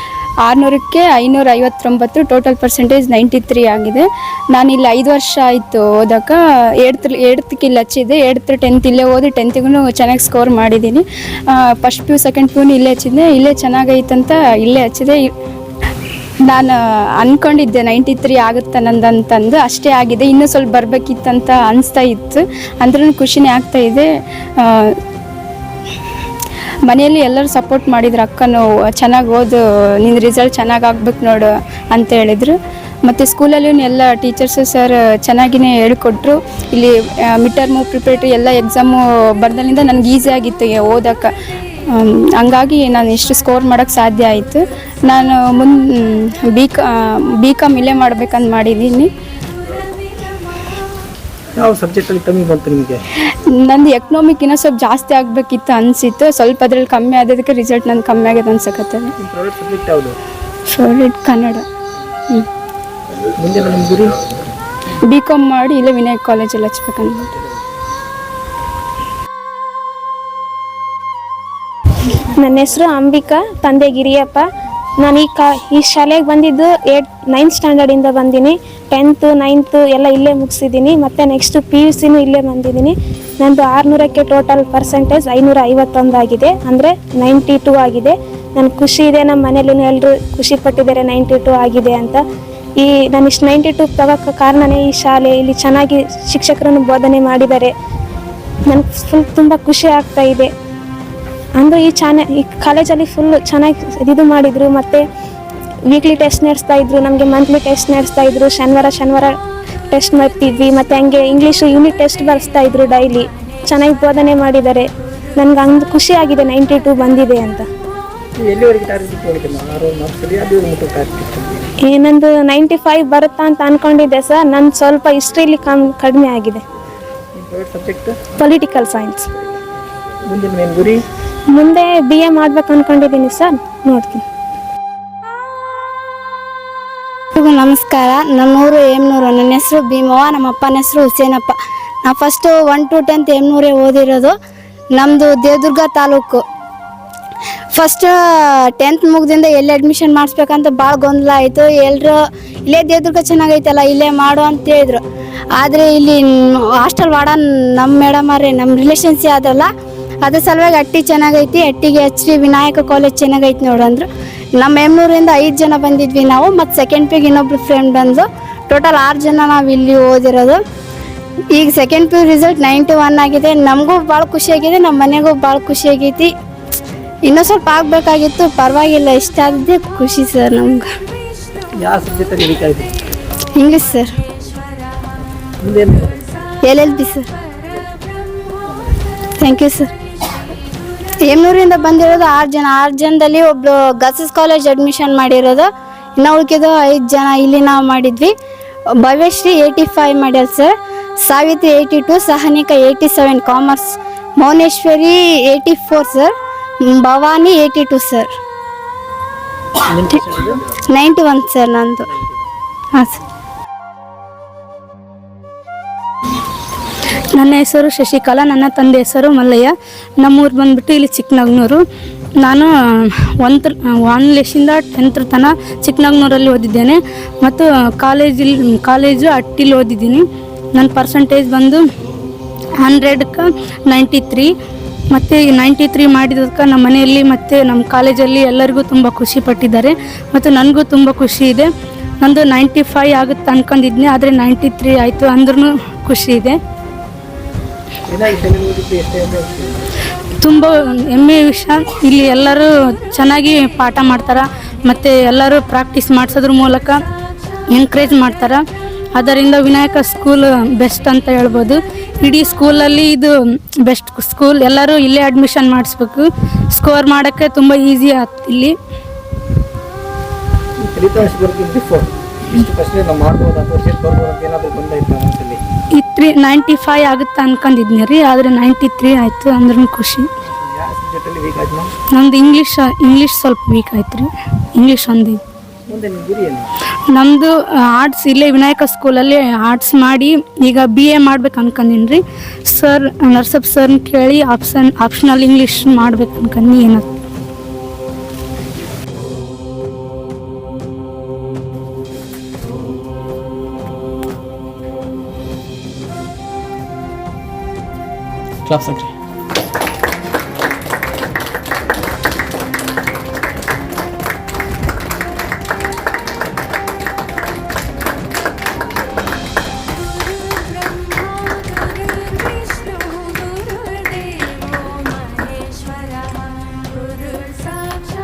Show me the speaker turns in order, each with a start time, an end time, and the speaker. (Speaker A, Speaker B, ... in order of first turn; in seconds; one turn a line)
Speaker A: 0.4-11.0
Speaker A: 11.8-15.2
Speaker A: 16.5-24.1
Speaker A: 24.6-24.9
Speaker A: 26.9-41.3
Speaker A: 41.9-46.8
Speaker A: 47.4-49.1
Speaker B: 51.5-53.0
Speaker A: 53.6-59.1
Speaker B: 59.2-60.2
Speaker A: 60.7-61.6
Speaker B: 63.4-64.2
Speaker A: 65.1-67.3
Speaker C: 72.4-74.4
Speaker C: 75.0-92.2
Speaker C: 92.8-97.7
Speaker C: 98.7-100.5
Speaker C: 101.6-105.0
Speaker C: 105.9-109.3
Speaker C: 109.9-114.9
Speaker C: 115.4-117.6
Speaker B: 118.4-121.7
Speaker C: 121.9-126.6
Speaker B: 127.4-128.2
Speaker C: 128.4-129.2
Speaker B: 130.3-131.0
Speaker C: 131.5-134.2
Speaker D: 137.4-144.3
Speaker D: 145.0-146.4
Speaker D: 147.7-148.1
Speaker D: 148.8-155.0
Speaker D: 155.6-156.2
Speaker D: 156.8-159.7
Speaker D: 160.2-170.6
Speaker D: 171.6-176.3
Speaker D: 177.2-180.9
Speaker B: 181.8-182.9
Speaker D: 183.6-184.1
Speaker B: 185.6-186.4
Speaker D: 186.6-187.3
Speaker B: 188.7-189.0
Speaker D: 189.4-189.9
Speaker D: 191.2-198.3
Speaker D: 199.0-206.3
Speaker D: 206.8-208.3
Speaker B: 209.9-210.6
Speaker D: 210.9-212.1
Speaker E: 217.4-221.8
Speaker E: 222.4-230.2
Speaker E: 230.8-231.8
Speaker E: 232.8-234.5
Speaker E: 235.1-241.7
Speaker E: 242.2-246.6
Speaker B: 248.1-249.9
Speaker E: 250.4-257.0
Speaker E: 257.7-258.6
Speaker E: 259.2-263.3
Speaker E: 263.9-268.8
Speaker B: 270.8-275.6
Speaker E: 276.0-280.3
Speaker B: 280.5-281.9
Speaker E: 282.1-285.4
Speaker B: 285.9-286.7
Speaker E: 287.1-297.0
Speaker B: 308.7-309.1